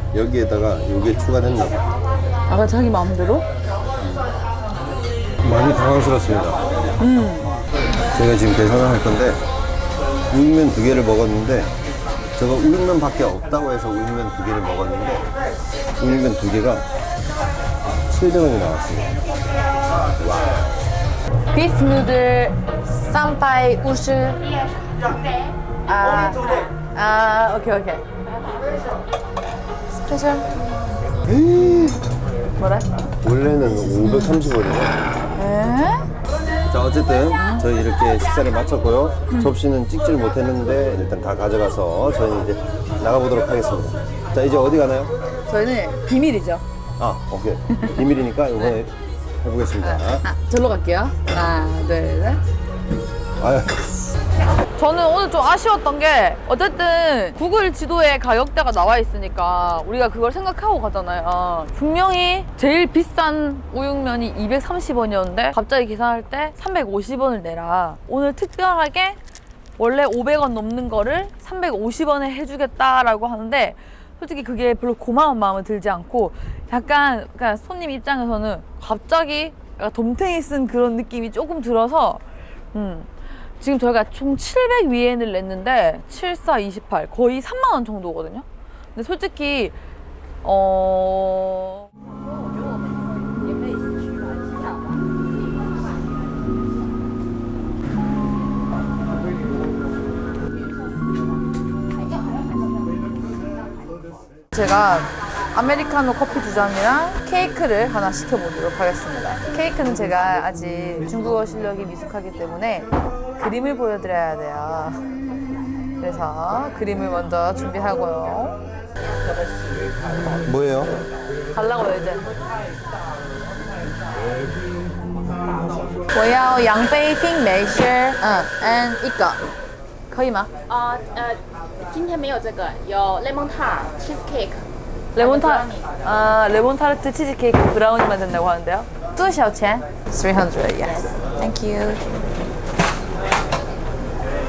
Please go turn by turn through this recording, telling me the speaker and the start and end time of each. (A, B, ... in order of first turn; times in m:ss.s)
0:00.1-0:01.8 A
0:02.5-0:03.5 B
0:04.0-0:04.2 A
0:05.4-0:06.6 A
0:07.0-0:07.6 B
0:08.1-0:09.4 A
0:10.3-0:11.7 A
0:12.4-0:15.2 A
0:16.0-0:16.8 A
0:18.0-0:19.1 A
0:20.2-0:20.6 A
0:21.5-0:24.5 B
0:25.9-0:28.0 B
0:29.9-0:30.5 B
0:31.2-0:32.0 A
0:32.6-0:32.9 B
0:33.2-0:34.9 A
0:34.0-0:34.4 B
0:35.4-0:36.1 B
0:36.7-0:45.1 A
0:37.3-0:37.6 B
0:45.5-0:46.6 B
0:47.0-0:50.2 A
0:49.8-0:52.4 B
0:53.4-0:54.2 A
0:54.8-1:09.2 B
1:09.8-1:29.8 B
1:30.4-1:31.9 B
1:44.5-1:55.0 B
1:56.0-1:58.6 B
2:00.4-2:01.0 A
2:01.5-2:02.2 B
2:06.1-2:09.4 B
2:10.1-2:10.5 B
2:10.7-2:14.6 C
2:15.1-2:22.0 B